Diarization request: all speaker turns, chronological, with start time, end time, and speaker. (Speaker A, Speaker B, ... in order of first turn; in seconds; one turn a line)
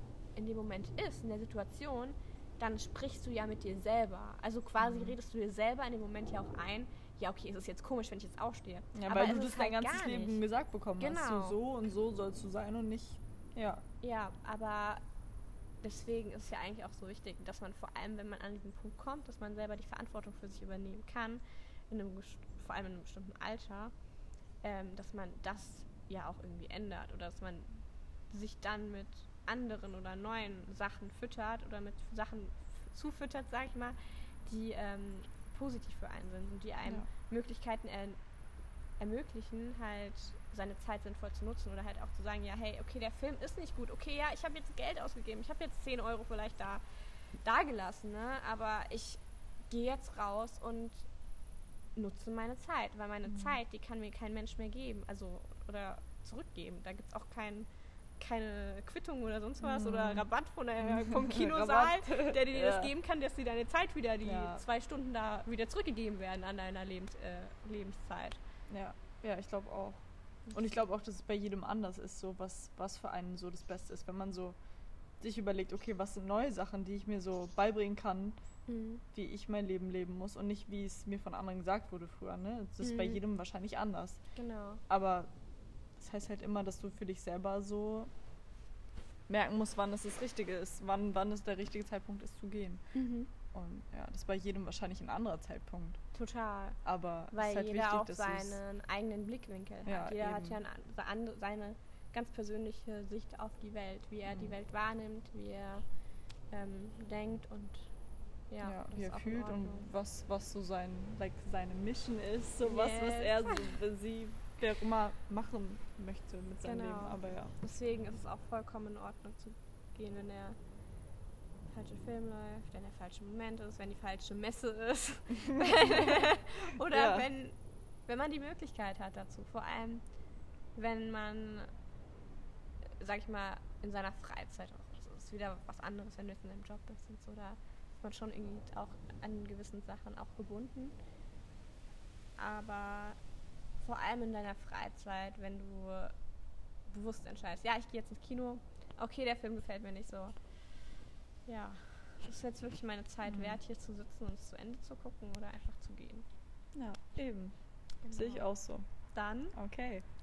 Speaker A: 0.4-10.4
Speaker B: 4.8-5.2
Speaker B: 8.9-13.8
Speaker A: 11.0-11.6
Speaker A: 14.0-15.0
Speaker A: 15.8-23.9
Speaker A: 24.6-38.2
Speaker A: 39.0-46.8
Speaker A: 47.4-51.1
Speaker A: 52.0-57.7
Speaker B: 53.3-53.6
Speaker A: 58.2-68.4
Speaker B: 59.6-60.3
Speaker B: 60.8-62.9
Speaker B: 64.2-64.6
Speaker B: 68.7-74.6
Speaker B: 75.2-78.4
Speaker A: 78.7-79.0
Speaker B: 79.1-84.2
Speaker A: 82.8-83.2
Speaker A: 84.4-84.8
Speaker B: 84.9-85.3
Speaker B: 86.0-88.1
Speaker B: 89.3-92.8
Speaker A: 92.9-93.3
Speaker B: 93.5-96.0
Speaker A: 96.1-96.8
Speaker B: 96.8-98.6
Speaker A: 97.3-105.8
Speaker B: 99.8-100.6
Speaker B: 104.3-104.5
Speaker A: 106.5-107.9
Speaker A: 108.5-109.9
Speaker B: 108.6-117.5
Speaker A: 112.6-113.8
Speaker A: 116.6-120.6
Speaker A: 121.7-127.5
Speaker B: 125.4-126.3
Speaker B: 126.8-127.3
Speaker A: 128.1-130.0
Speaker A: 130.8-131.7
Speaker A: 133.0-140.9
Speaker A: 142.4-143.2
Speaker A: 143.8-146.1
Speaker A: 146.9-150.3
Speaker A: 151.5-156.3
Speaker B: 153.2-153.6
Speaker B: 156.7-157.5
Speaker A: 158.0-158.4
Speaker B: 158.1-158.8
Speaker A: 159.1-159.6
Speaker B: 159.5-160.1